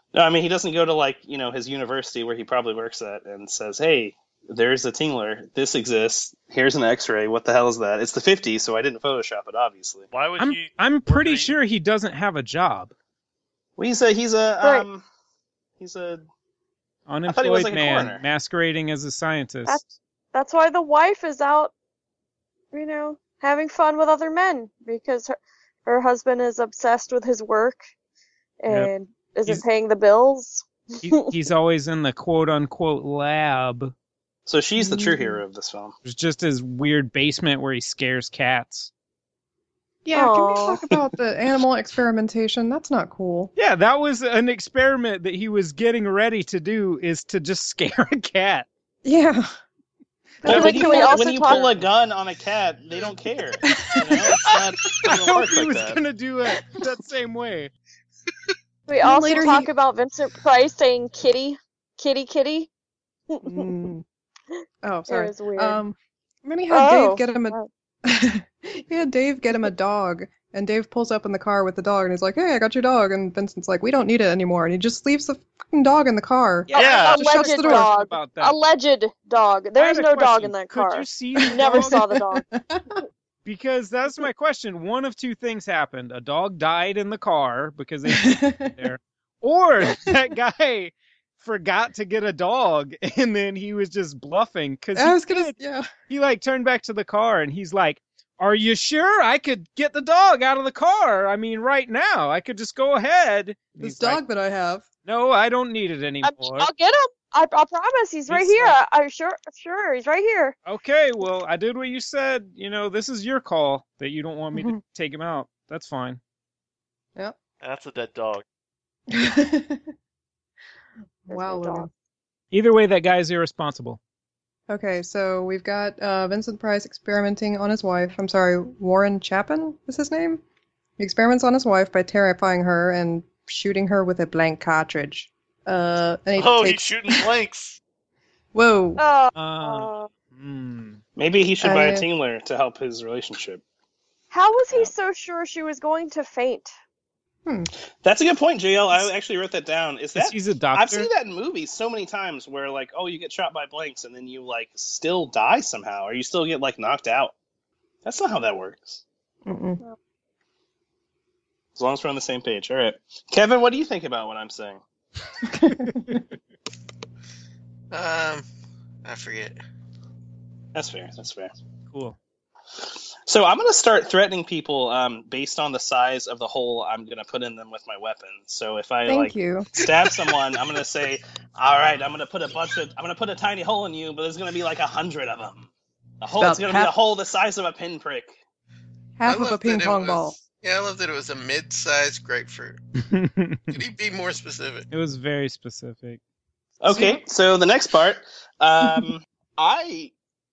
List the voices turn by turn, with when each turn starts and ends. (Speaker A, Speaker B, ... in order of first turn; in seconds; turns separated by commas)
Speaker A: 0.1-10.1, Speaker B: 10.1-11.5, Speaker C: 10.4-12.9, Speaker A: 13.8-15.0, Speaker A: 15.8-16.2, Speaker C: 17.1-19.8, Speaker A: 17.2-18.2, Speaker D: 19.6-21.7, Speaker D: 22.7-27.8, Speaker D: 28.6-31.3, Speaker C: 31.0-33.9, Speaker A: 34.5-35.9, Speaker E: 34.8-35.4, Speaker C: 36.0-38.9, Speaker E: 40.0-43.5, Speaker D: 40.1-40.8, Speaker C: 43.5-48.7, Speaker E: 49.0-49.5, Speaker E: 50.4-51.5, Speaker D: 50.4-51.7, Speaker A: 50.4-56.0, Speaker E: 53.6-54.2, Speaker C: 55.0-57.7, Speaker D: 58.9-62.7, Speaker E: 59.0-59.7, Speaker D: 63.3-63.6, Speaker E: 63.4-64.0, Speaker E: 64.8-77.9, Speaker D: 65.1-65.8, Speaker D: 66.7-67.7, Speaker D: 76.7-82.4, Speaker B: 76.7-77.2, Speaker C: 76.8-78.6, Speaker C: 79.8-82.0, Speaker E: 81.4-83.0, Speaker C: 83.4-95.5, Speaker E: 88.1-88.7, Speaker E: 94.9-95.9, Speaker C: 96.1-104.2, Speaker E: 103.8-104.8, Speaker C: 105.0-106.7, Speaker D: 106.2-110.5, Speaker C: 108.3-108.7, Speaker C: 110.7-116.2, Speaker B: 117.6-118.4, Speaker E: 119.1-119.9, Speaker E: 121.3-121.9, Speaker D: 121.3-121.9, Speaker C: 122.5-124.0, Speaker E: 124.7-130.4, Speaker E: 131.0-137.3, Speaker B: 136.3-137.8, Speaker E: 138.5-139.0, Speaker D: 139.0-140.1, Speaker C: 139.3-141.0, Speaker A: 141.2-143.6, Speaker E: 141.6-142.0, Speaker D: 144.3-146.7, Speaker A: 148.0-157.3, Speaker C: 150.2-151.1, Speaker A: 158.0-159.0, Speaker E: 159.4-159.8, Speaker A: 161.7-164.8, Speaker E: 165.5-166.2, Speaker C: 165.8-166.2, Speaker F: 167.9-168.4, Speaker F: 169.0-169.6, Speaker A: 170.7-171.5, Speaker C: 171.9-172.2, Speaker A: 173.3-185.7, Speaker E: 179.1-179.9, Speaker A: 186.2-188.4, Speaker E: 186.4-186.9, Speaker E: 189.2-190.3, Speaker F: 189.2-192.8, Speaker C: 193.1-193.8, Speaker F: 193.7-194.8, Speaker C: 194.9-196.2, Speaker A: 196.8-200.1, Speaker E: 196.9-197.2